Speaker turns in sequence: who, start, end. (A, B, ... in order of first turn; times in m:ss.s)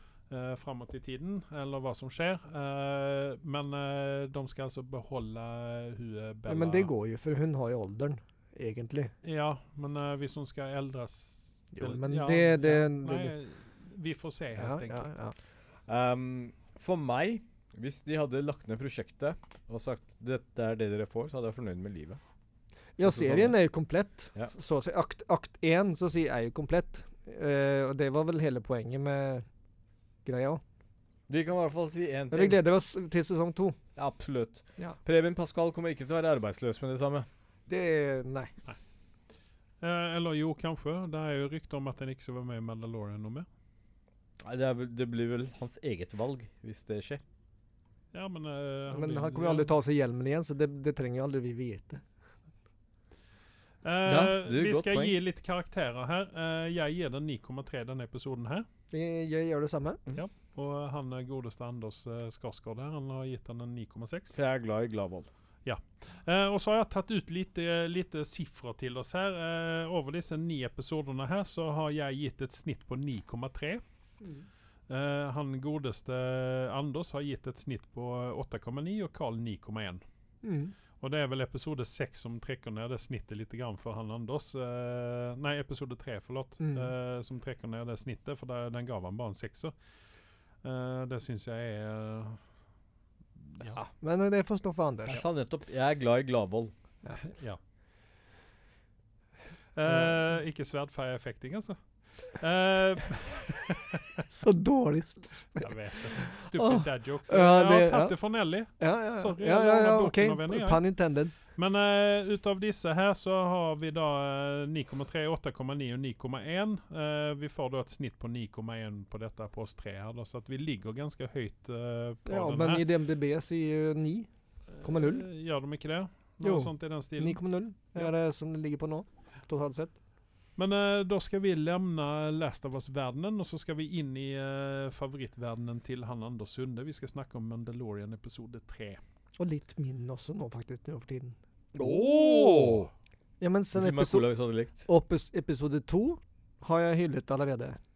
0:00.3-0:06.9 A
0:06.5-0:09.1 B
0:09.2-0:15.1 A
0:11.7-0:13.3 B
0:14.6-0:15.3 B
0:15.9-0:22.2 C
0:23.0-0:29.4 B
0:23.0-0:23.5 C
0:30.2-0:30.6 B
0:31.3-0:32.6 C
0:32.3-0:33.8 B
0:34.0-0:37.3 C
0:37.7-0:38.5 B
0:39.8-0:43.4 A
0:44.4-0:47.2 C
0:48.1-0:49.7 A
0:48.9-0:52.0 B
0:53.8-0:58.6 A
0:54.0-0:55.1 C
0:58.9-1:00.0 B
1:00.1-1:04.4 A
1:04.3-1:05.3 C
1:05.6-1:13.8 A
1:14.9-1:20.0 A
1:20.4-1:20.7 B
1:21.0-1:29.7 A
1:26.6-1:26.9 B
1:30.6-1:32.4 A
1:33.5-1:33.8 A
1:33.6-1:35.2 B
1:35.1-1:36.7 C
1:37.1-1:37.6 A
1:39.7-1:44.2 A
1:39.9-1:40.1 B
1:44.3-1:48.2 B
1:45.6-1:50.8 A
1:48.7-1:51.3 B
1:51.5-2:02.8 A
2:02.2-2:04.3 B
2:04.7-2:07.4 A
2:04.8-2:05.3 B
2:06.4-2:10.0 B
2:10.6-2:19.0 A
2:19.4-2:21.4 B
2:21.7-2:22.9 C
2:21.8-2:22.9 A
2:23.4-2:24.3 B
2:23.7-2:24.8 C
2:24.9-2:27.8 B